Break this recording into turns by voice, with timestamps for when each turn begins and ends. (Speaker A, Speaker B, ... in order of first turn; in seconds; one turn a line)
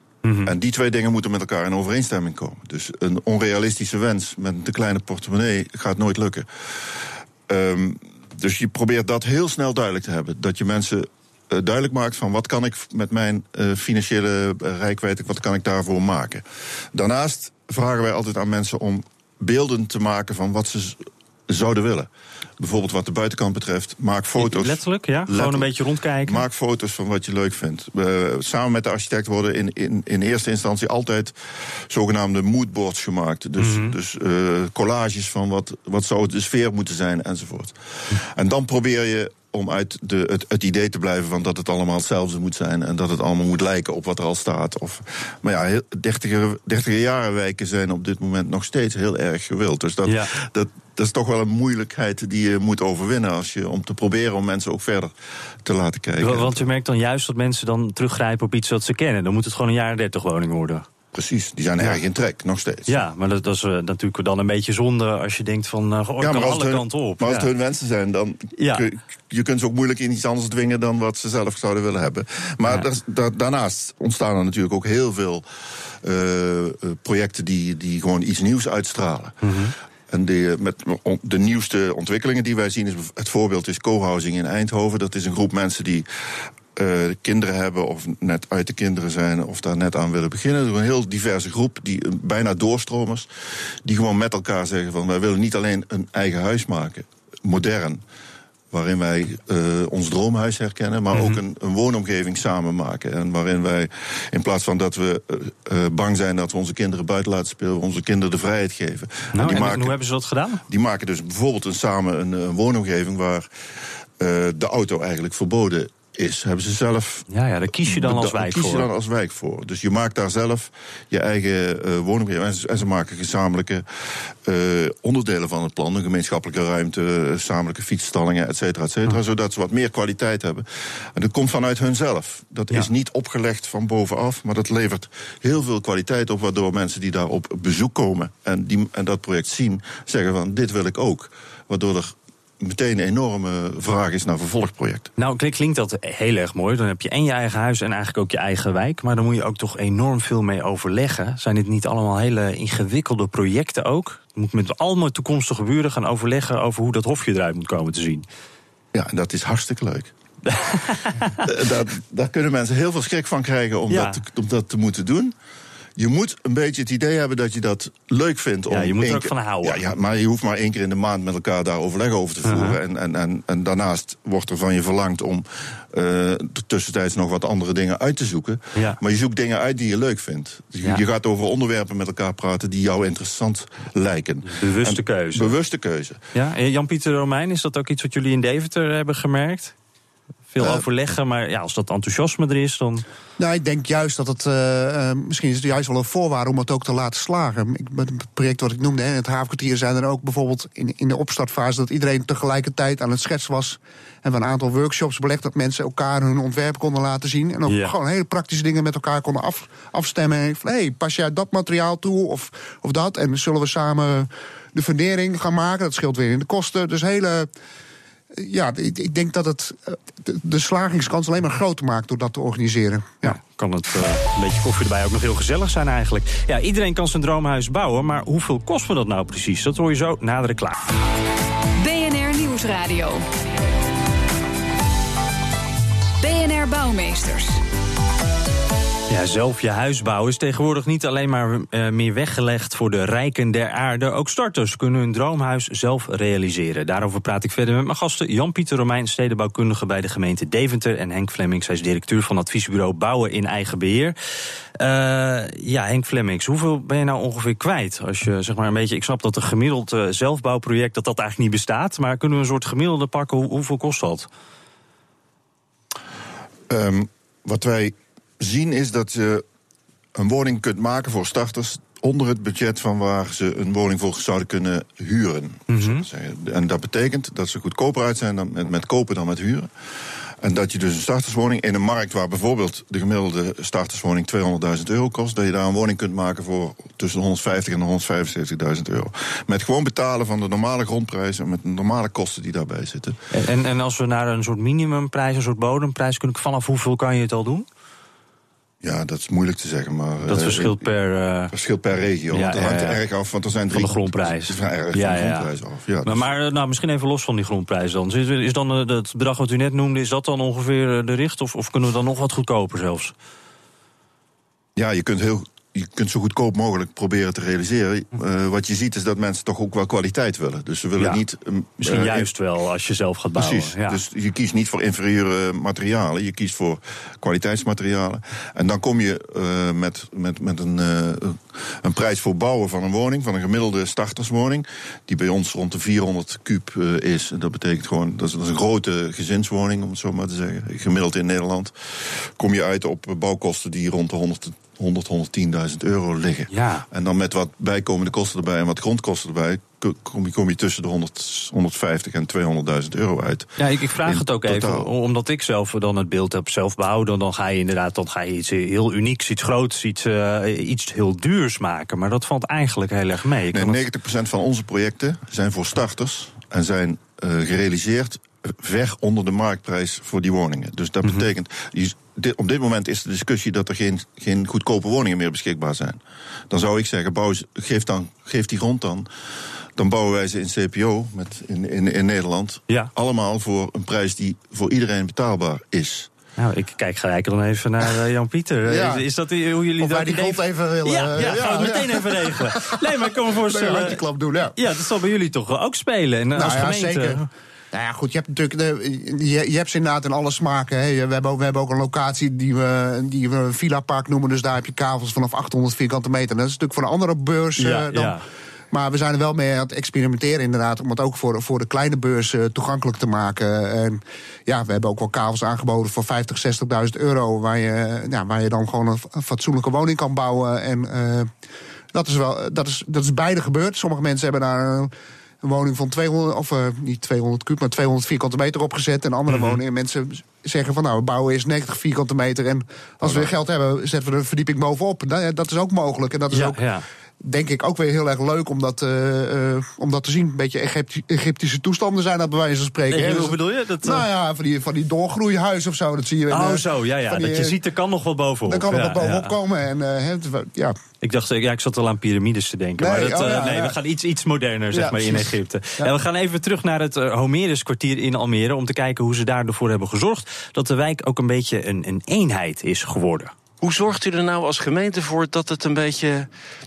Speaker A: 0.2-0.5
Speaker B: 0.4-25.7
Speaker A: 24.4-26.4
Speaker B: 26.2-55.1
Speaker A: 33.6-33.9
Speaker A: 50.0-50.3
Speaker B: 55.6-56.6
Speaker A: 56.2-60.9
Speaker B: 61.1-63.0
Speaker A: 62.9-67.5
Speaker B: 66.2-75.4
Speaker A: 68.6-68.8
Speaker B: 76.0-79.5
Speaker A: 79.4-79.7
Speaker B: 80.1-93.3
Speaker B: 93.8-98.0
Speaker B: 98.7-110.0
Speaker A: 101.1-101.4
Speaker A: 109.3-110.6
Speaker B: 110.7-113.5
Speaker B: 114.2-117.3
Speaker A: 117.3-118.9
Speaker B: 117.8-145.1
Speaker A: 145.2-158.2
Speaker B: 158.9-160.1
Speaker A: 160.4-161.4
Speaker B: 161.4-165.3
Speaker A: 163.9-164.2
Speaker B: 166.0-186.2
Speaker A: 168.7-169.8
Speaker A: 172.4-172.8
Speaker A: 184.4-185.5
Speaker A: 186.3-189.7
Speaker A: 190.5-193.0
Speaker C: 193.4-217.5
Speaker A: 207.7-207.9
Speaker C: 218.3-223.4
Speaker A: 223.2-230.8
Speaker D: 231.8-233.2
Speaker D: 236.2-237.6
Speaker A: 239.1-254.1
Speaker A: 254.8-264.3
Speaker B: 266.7-269.4
Speaker B: 270.1-279.7
Speaker A: 275.7-276.0
Speaker B: 280.4-293.2
Speaker A: 293.3-297.7
Speaker B: 298.8-300.9
Speaker A: 300.3-301.5
Speaker B: 301.5-306.3
Speaker A: 302.3-303.0
Speaker A: 303.7-305.5
Speaker A: 306.0-313.1
Speaker B: 314.8-322.3
Speaker A: 321.8-324.0
Speaker B: 323.4-354.9
Speaker A: 346.5-346.8
Speaker A: 353.6-363.8
Speaker B: 363.5-379.1
Speaker B: 379.8-386.1
Speaker A: 386.4-394.0
Speaker C: 388.7-389.1
Speaker C: 389.8-394.6
Speaker A: 394.5-397.3
Speaker C: 396.3-408.2
Speaker A: 407.6-408.2
Speaker C: 408.7-421.3
Speaker C: 421.9-436.6
Speaker A: 429.3-429.6
Speaker A: 436.3-436.9
Speaker C: 437.2-447.6
Speaker A: 442.9-444.1
Speaker A: 446.3-449.3
Speaker C: 448.4-450.8
Speaker A: 451.0-463.3
Speaker C: 452.8-453.8
Speaker C: 454.7-455.9
Speaker E: 463.6-466.3